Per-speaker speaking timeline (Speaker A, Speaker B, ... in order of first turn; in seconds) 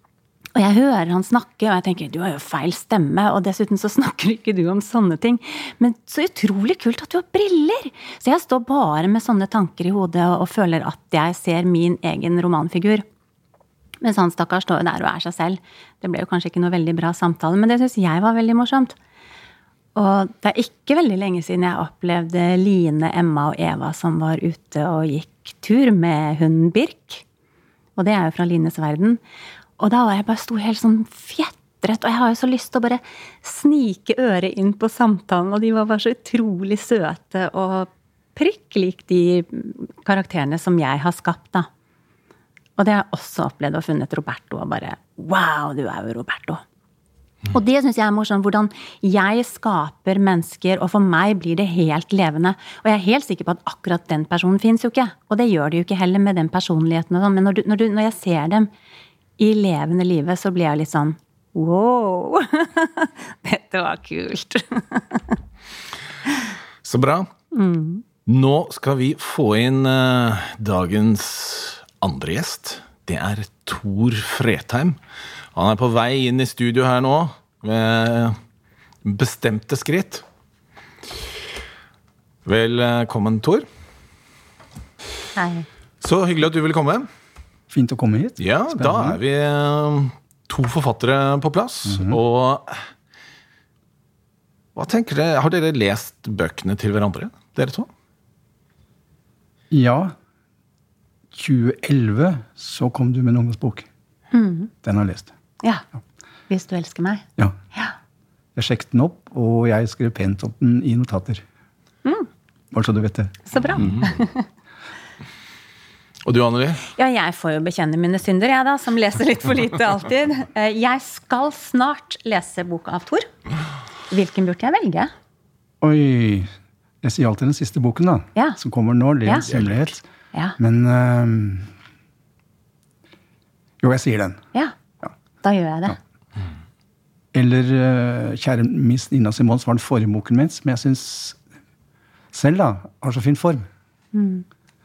Speaker A: 0.6-13.0, 14.0-19.0, 19.9-27.2, 28.0-29.2, 29.8-41.7, 42.8-46.6, 47.5-58.7, 59.4-65.4, 67.5-68.0, 85.4-85.7, 104.3-104.7, 106.5-108.0, 113.5-114.5, 116.9-123.3, 124.1-125.1, 135.4-136.0, 144.1-144.4
Speaker B: 66.8-67.3, 68.3-75.0, 75.5-78.4, 79.0-80.2, 82.5-83.7, 86.0-87.1, 88.4-92.9, 94.8-97.9, 113.8-114.2, 116.2-116.8, 129.5-129.9
Speaker C: 87.7-89.2, 91.9-92.2, 99.7-100.1, 101.3-103.9, 104.8-105.3, 108.6-111.4, 112.7-114.0, 125.8-126.5, 127.0-130.0, 130.6-131.7, 133.8-134.4, 137.3-141.4, 142.3-143.7